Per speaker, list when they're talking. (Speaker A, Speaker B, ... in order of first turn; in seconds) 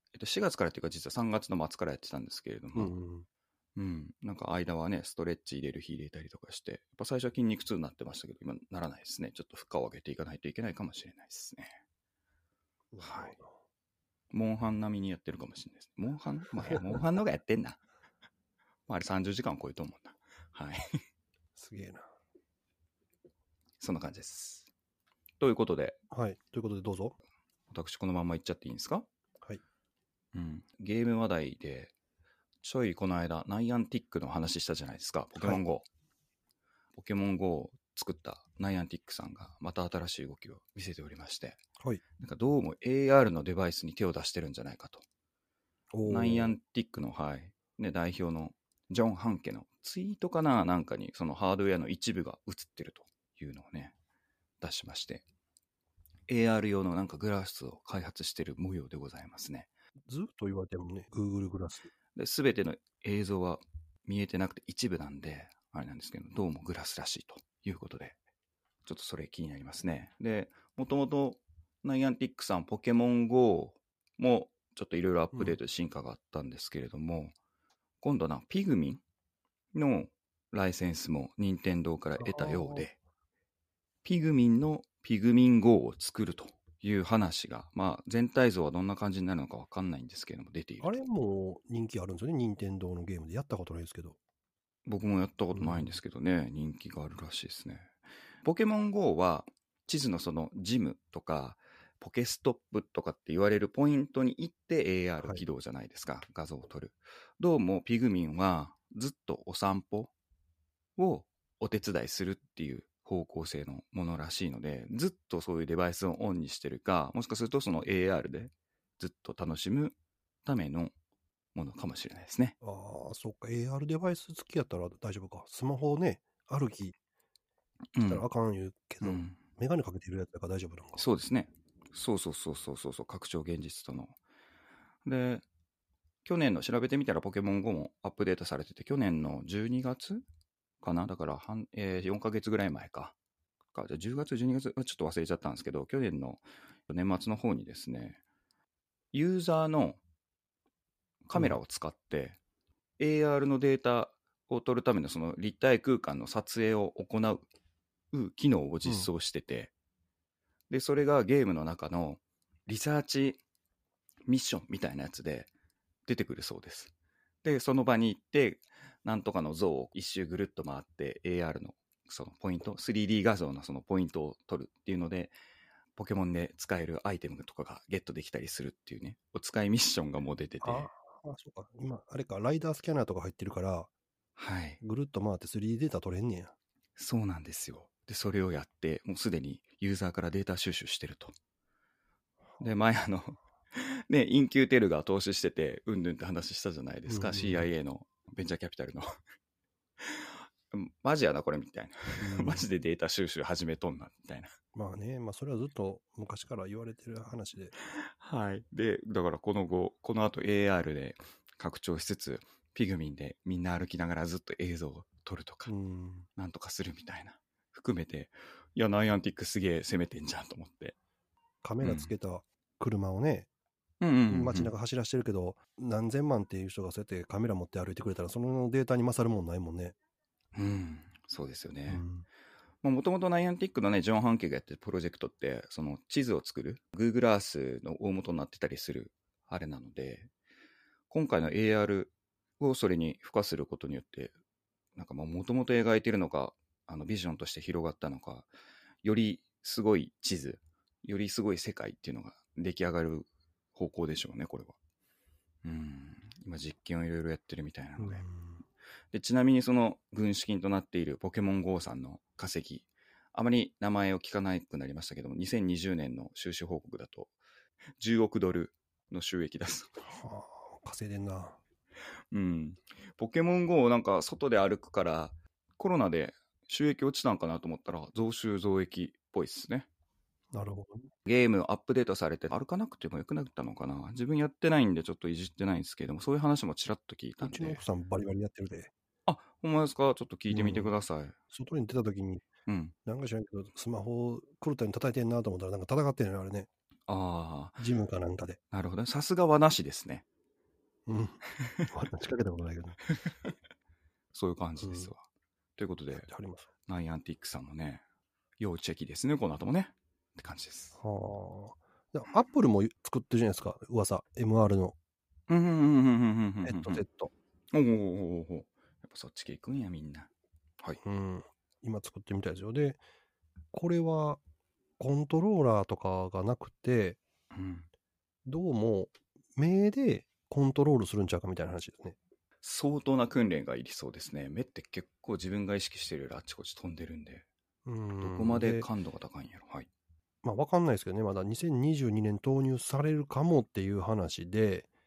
Speaker A: 0.1-3.0, 3.8-11.8, 13.0-13.4, 14.3-17.8, 18.9-21.0, 23.8-24.7, 25.4-26.0, 27.7-29.1, 30.3-31.9, 32.6-35.9, 36.9-41.6, 42.2-45.0, 46.0-53.9, 54.6-55.2, 56.3-59.7, 62.1-68.2, 68.9-77.4, 78.0-79.0, 79.7-83.0, 84.0-91.0, 94.9-110.1, 111.0-120.9, 121.5-122.6, 128.0-128.2, 129.0-129.4, 131.0-134.2, 135.1-135.4, 136.2-140.2, 140.8-143.2, 143.7-148.2, 149.1-150.0, 151.3-152.4, 153.0-157.5, 158.1-159.7, 160.7-163.4, 164.3-165.5, 166.1-166.9, 167.4-175.3, 176.0-180.9, 184.4-184.8, 187.0-191.3, 192.6-199.1, 200.0-204.5, 207.9-215.7, 216.4-221.0, 221.8-222.1, 224.0-224.7, 230.5-232.0, 232.8-240.3, 241.1-244.3, 245.0-248.5, 249.0-254.8, 255.6-258.3, 259.1-267.4, 268.0-269.9, 272.3-279.9, 281.2-287.8, 289.3-291.4, 292.7-292.9, 297.1-297.9, 298.7-300.2, 301.6-301.9, 303.1-303.5, 304.3-305.2, 305.8-306.3, 306.9-308.0, 308.6-311.0, 315.5-317.0, 317.7-320.3, 327.5-327.9, 332.6-337.5, 338.2-339.9
Speaker B: 2.8-3.3, 12.9-13.6, 21.6-22.1, 26.1-27.1, 45.9-46.5, 60.1-61.9, 82.2-82.9, 90.8-94.2, 95.5-96.0, 122.6-127.0, 128.1-131.1, 180.6-183.9, 184.8-186.5, 197.1-197.7, 202.2-202.7, 204.8-207.7, 215.7-216.3, 221.6-223.5, 224.3-229.9, 231.9-232.2, 258.0-258.6, 270.0-271.6, 280.5-281.1, 287.4-288.9, 290.5-290.9, 291.5-292.4, 293.1-296.7, 297.8-298.6, 301.1-303.0, 304.8-305.1, 306.1-306.7, 311.0-315.0, 316.6-317.3, 321.0-323.0, 323.7-324.4, 325.0-327.2, 328.5-332.2, 337.9-338.9, 340.4-344.9